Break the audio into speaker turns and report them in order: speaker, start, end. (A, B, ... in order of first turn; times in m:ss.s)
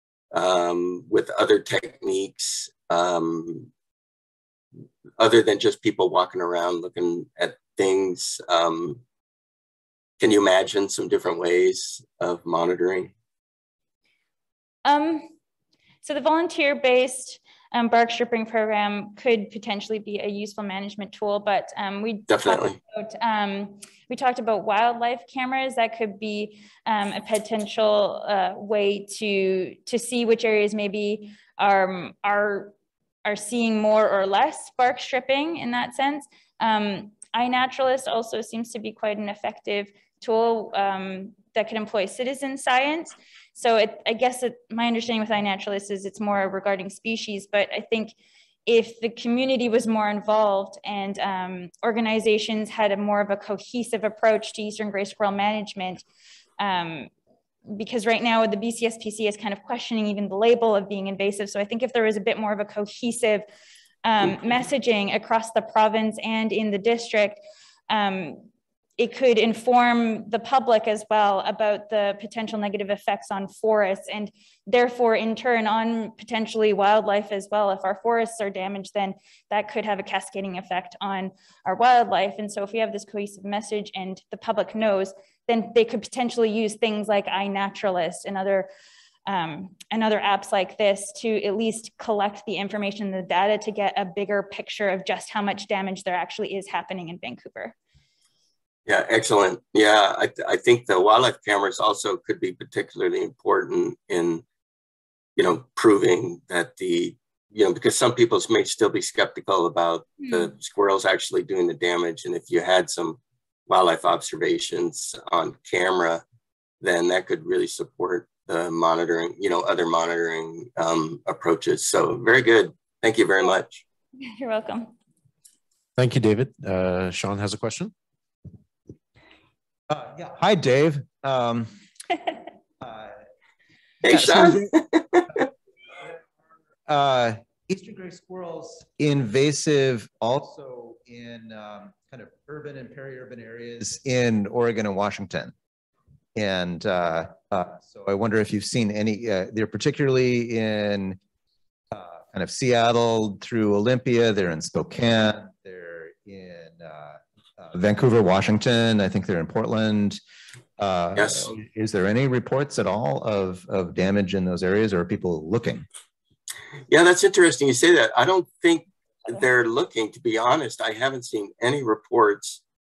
0:00.3-0:03.7 A
0:05.2-0:09.0 A
0:10.2-0:13.1 A
0:14.8-0:15.3 B
0:16.0-0:32.7 B
0:22.3-0:22.8 A
0:33.2-0:48.2 B
0:48.7-0:56.0 B
0:56.6-0:57.1 B
0:57.7-1:03.4 B
1:04.0-1:28.7 B
1:29.3-1:37.8 B
1:38.9-1:44.4 A
1:45.4-1:56.2 A
1:56.8-2:03.8 A
2:04.2-2:04.9 B
2:06.0-2:07.9 C
2:09.9-2:11.7 D
2:12.8-2:13.2 D
2:14.0-2:15.4 A
2:14.1-2:14.7 D
2:16.9-2:25.5 D
2:26.4-2:31.2 D
2:31.9-2:40.2 D
2:40.8-2:45.9 D
2:41.2-2:41.5 A
2:46.9-2:52.6 A